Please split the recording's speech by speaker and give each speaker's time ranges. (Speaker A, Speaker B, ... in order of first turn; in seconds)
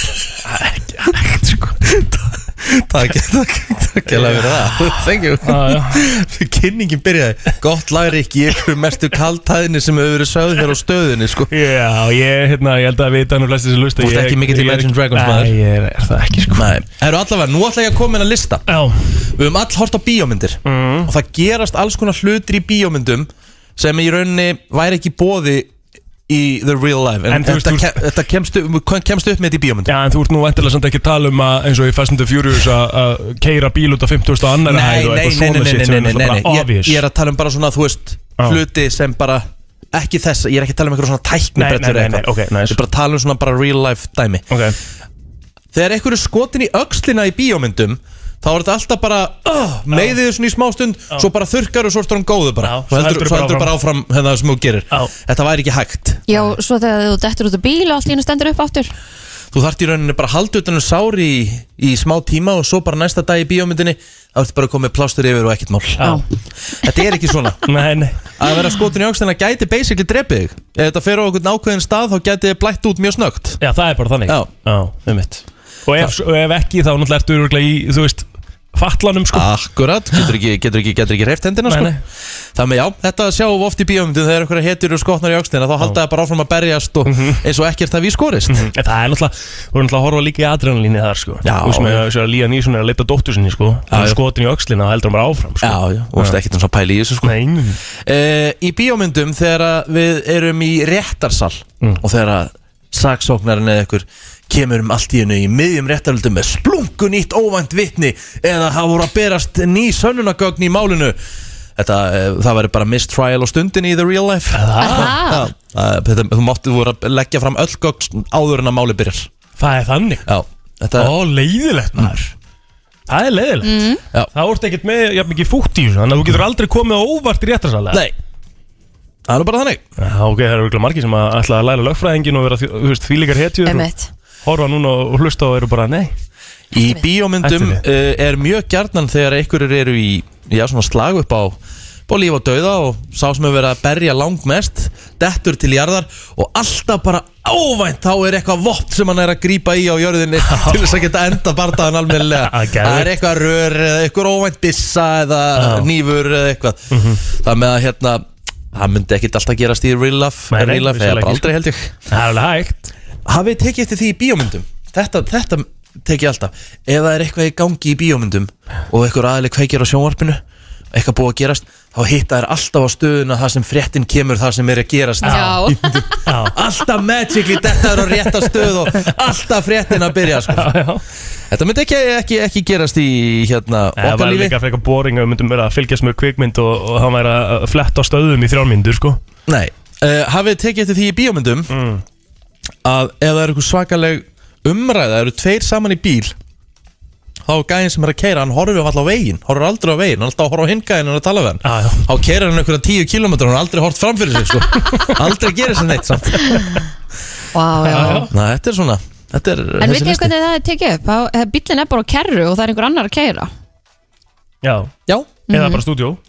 Speaker A: 0.5-1.8, 4.1-6.1, 11.5-16.7, 18.7-19.0, 20.7-21.1, 27.3-28.1, 29.9-37.0, 41.6-42.8, 44.5-44.8, 52.6-53.7, 67.7-68.2, 73.6-79.5, 81.7-82.0, 87.1-87.4, 88.5-96.4, 97.2-97.8, 114.5-115.2, 119.6-120.2, 121.0-122.3, 123.1-128.1, 130.0-133.9, 134.4-136.1, 137.4-137.8, 150.4-150.9, 152.3-153.1, 155.6-155.9, 156.9-157.2, 160.5-161.5, 162.1-162.9, 175.2-175.6, 176.2-176.6, 180.3-181.0, 184.0-189.2, 191.7-192.0, 201.6-202.1, 207.8-208.3, 214.6-214.9, 215.5-216.2
Speaker B: 1.8-11.5, 14.0-15.6, 16.5-18.6, 19.4-25.7, 26.3-29.9, 34.6-44.5, 45.7-56.2, 59.5-66.1, 66.8-67.7, 68.4-73.6, 79.3-81.9, 82.5-88.7, 91.4-92.1, 93.9-94.2, 95.6-97.4, 98.0-111.2, 111.8-119.3, 120.3-121.1, 129.3-129.8, 136.7-161.9, 163.3-170.4, 170.9-180.8, 181.5-184.6, 189.5-191.7, 192.8-196.3, 197.5-206.6, 208.0-210.3
Speaker C: 56.3-58.9, 114.8-115.5, 123.6-124.0, 133.7-134.1, 175.2-176.2, 206.5-206.8, 207.5-208.3, 209.8-213.5, 215.5-215.8